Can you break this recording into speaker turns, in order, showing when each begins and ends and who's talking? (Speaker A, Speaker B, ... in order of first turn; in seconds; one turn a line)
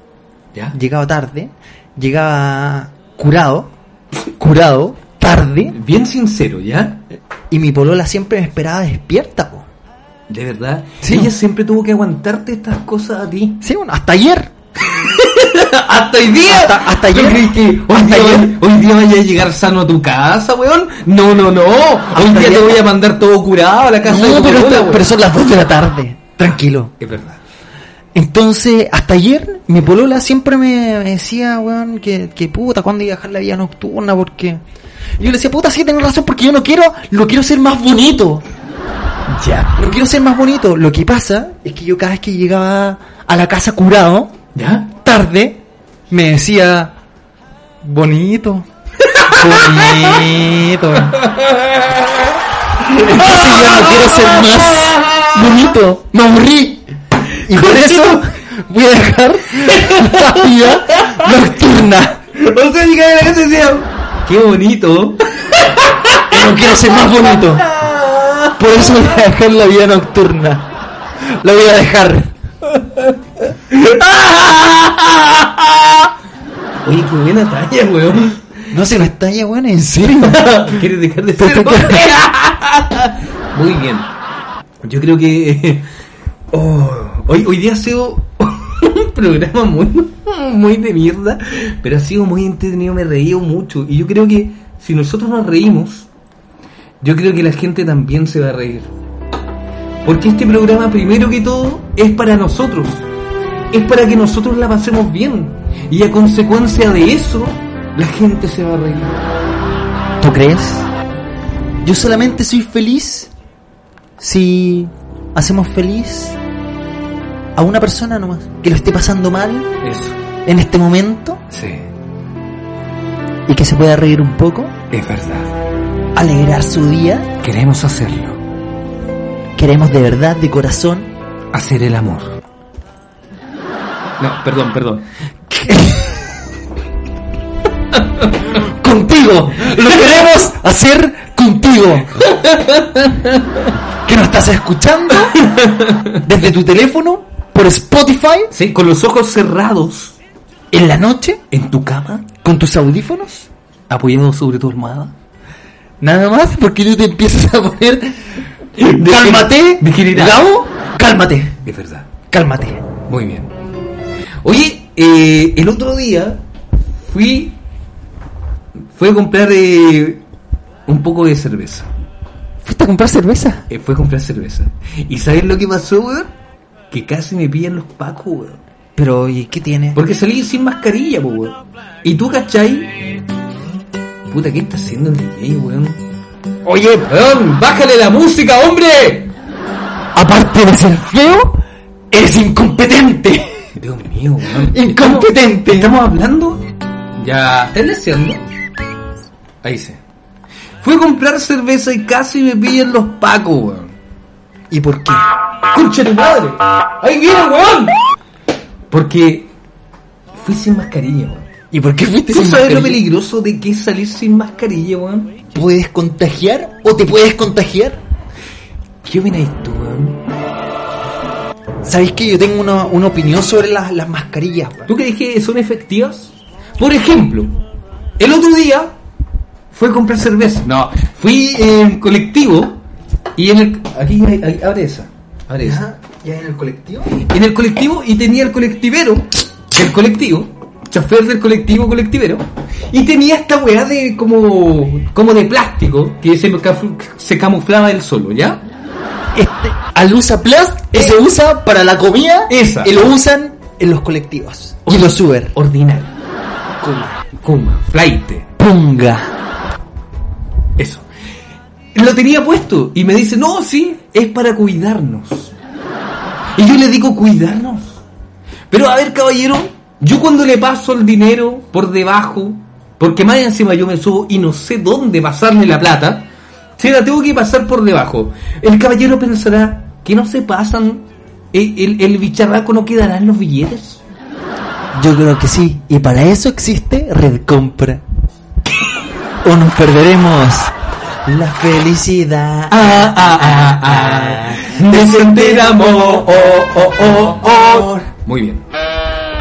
Speaker A: 0.7-3.7
Speaker A: 4.4-5.8
Speaker B: 5.7-7.0
Speaker A: 7.5-9.7
Speaker B: 10.3-13.6
Speaker A: 11.0-11.3
Speaker A: 13.6-14.5
Speaker B: 14.9-25.1
Speaker A: 16.4-18.6
Speaker A: 22.1-22.8
Speaker A: 24.0-26.9
Speaker B: 27.0-27.4
Speaker A: 28.1-34.6
Speaker A: 35.2-38.4
Speaker B: 39.3-39.7
Speaker A: 39.8-44.3
Speaker B: 44.5-44.9
Speaker A: 45.0-46.9
Speaker A: 47.8-48.7
Speaker B: 49.1-50.3
Speaker A: 49.2-51.2
Speaker B: 51.2-52.3
Speaker B: 52.8-55.3
Speaker A: 53.0-56.9
Speaker A: 57.4-62.3
Speaker B: 57.5-58.2
Speaker B: 59.6-61.3
Speaker B: 62.4-68.8
Speaker A: 66.3-67.6
Speaker A: 68.6-70.7
Speaker A: 71.2-72.3
Speaker B: 73.7-76.1
Speaker B: 76.8-78.6
Speaker A: 78.7-82.2
Speaker B: 80.2-84.1
Speaker B: 84.8-85.9
Speaker B: 86.5-96.1
Speaker B: 97.0-98.9
Speaker B: 100.0-103.1
Speaker B: 103.7-109.2
Speaker A: 110.2-110.9
Speaker A: 111.8-113.3
Speaker A: 114.2-116.4
Speaker A: 117.6-119.7
Speaker B: 119.8-120.2
Speaker A: 120.5-121.4
Speaker B: 121.5-121.9
Speaker A: 123.5-124.8
Speaker B: 124.9-125.5
Speaker A: 126.1-127.3
Speaker B: 127.4-128.4
Speaker A: 129.6-131.1
Speaker B: 131.5-132.4
Speaker B: 134.2-135.1
Speaker A: 135.5-136.2
Speaker B: 137.9-138.3
Speaker A: 138.5-142.2
Speaker B: 142.2-143.7
Speaker A: 144.1-145.5
Speaker B: 145.3-146.2
Speaker A: 146.2-148.5
Speaker B: 148.5-150.1
Speaker A: 150.7-151.4
Speaker B: 151.5-152.3
Speaker A: 152.4-153.5
Speaker B: 153.9-155.1
Speaker A: 156.0-158.2
Speaker B: 158.8-160.5
Speaker A: 158.8-161.6
Speaker B: 161.6-162.1
Speaker A: 162.3-162.8
Speaker B: 163.1-163.5
Speaker B: 164.4-166.4
Speaker B: 167.0-167.6
Speaker B: 168.9-170.2
Speaker B: 170.9-171.9
Speaker A: 172.6-173.6
Speaker B: 173.7-176.3
Speaker B: 176.9-178.6
Speaker A: 178.9-180.0
Speaker B: 179.9-182.9
Speaker B: 184.3-186.0
Speaker A: 186.6-187.1
Speaker B: 187.1-189.3
Speaker A: 190.1-193.6
Speaker B: 193.8-196.7
Speaker A: 194.7-195.9
Speaker B: 197.2-198.4
Speaker B: 199.6-200.0
Speaker B: 200.8-203.9
Speaker A: 204.7-205.3
Speaker B: 205.7-207.9
Speaker B: 208.9-209.5
Speaker B: 210.4-211.5
Speaker A: 211.7-213.0
Speaker B: 212.3-215.4
Speaker A: 215.5-218.0
Speaker B: 219.0-220.2
Speaker A: 221.8-224.9
Speaker B: 224.9-227.6
Speaker B: 228.2-228.9
Speaker B: 229.7-232.8
Speaker B: 233.4-235.8
Speaker A: 235.6-237.1
Speaker B: 237.1-248.6
Speaker A: 249.3-255.6
Speaker B: 252.5-252.9
Speaker B: 254.9-256.1
Speaker A: 256.8-257.3
Speaker B: 257.4-258.5
Speaker A: 258.6-259.3
Speaker B: 260.8-261.1
Speaker B: 261.9-265.5
Speaker B: 266.6-268.0
Speaker B: 268.7-284.0
Speaker A: 284.9-288.0
Speaker A: 289.4-290.7
Speaker A: 291.2-298.1
Speaker B: 292.7-298.6